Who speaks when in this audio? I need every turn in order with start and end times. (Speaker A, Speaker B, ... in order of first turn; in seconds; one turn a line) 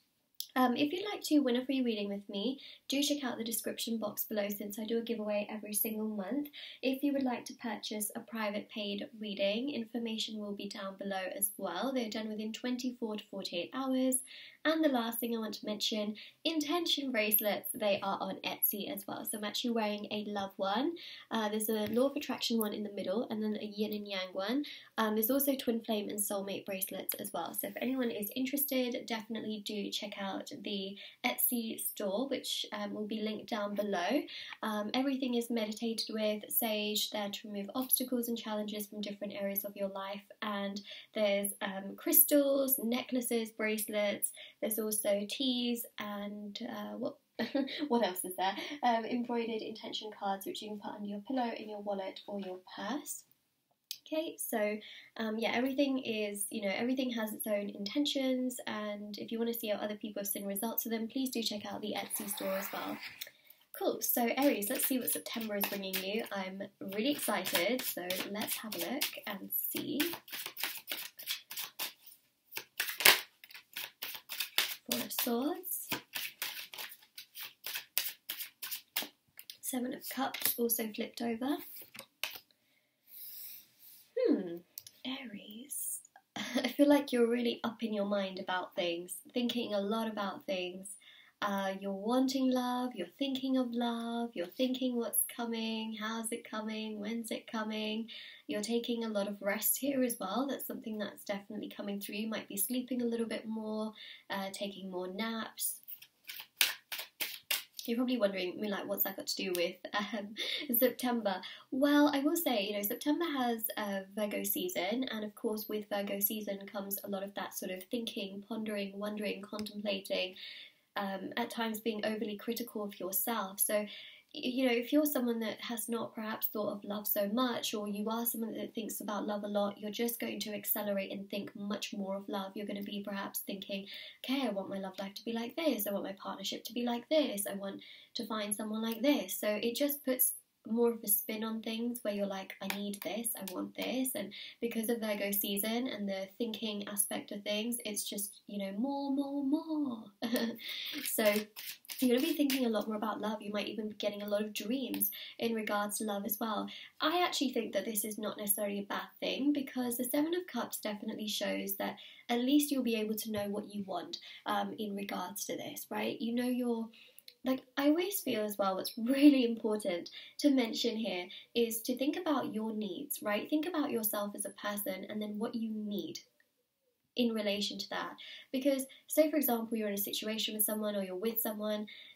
Speaker A: 0.6-53.2
Speaker A: 54.0-63.0
Speaker A: 63.7-70.1
Speaker A: 74.8-75.9
Speaker A: 79.6-81.6
Speaker A: 84.2-105.8
Speaker A: 107.8-120.3
Speaker A: 121.0-151.4
Speaker A: 152.0-166.9
Speaker A: 167.4-176.2
Speaker A: 177.2-181.9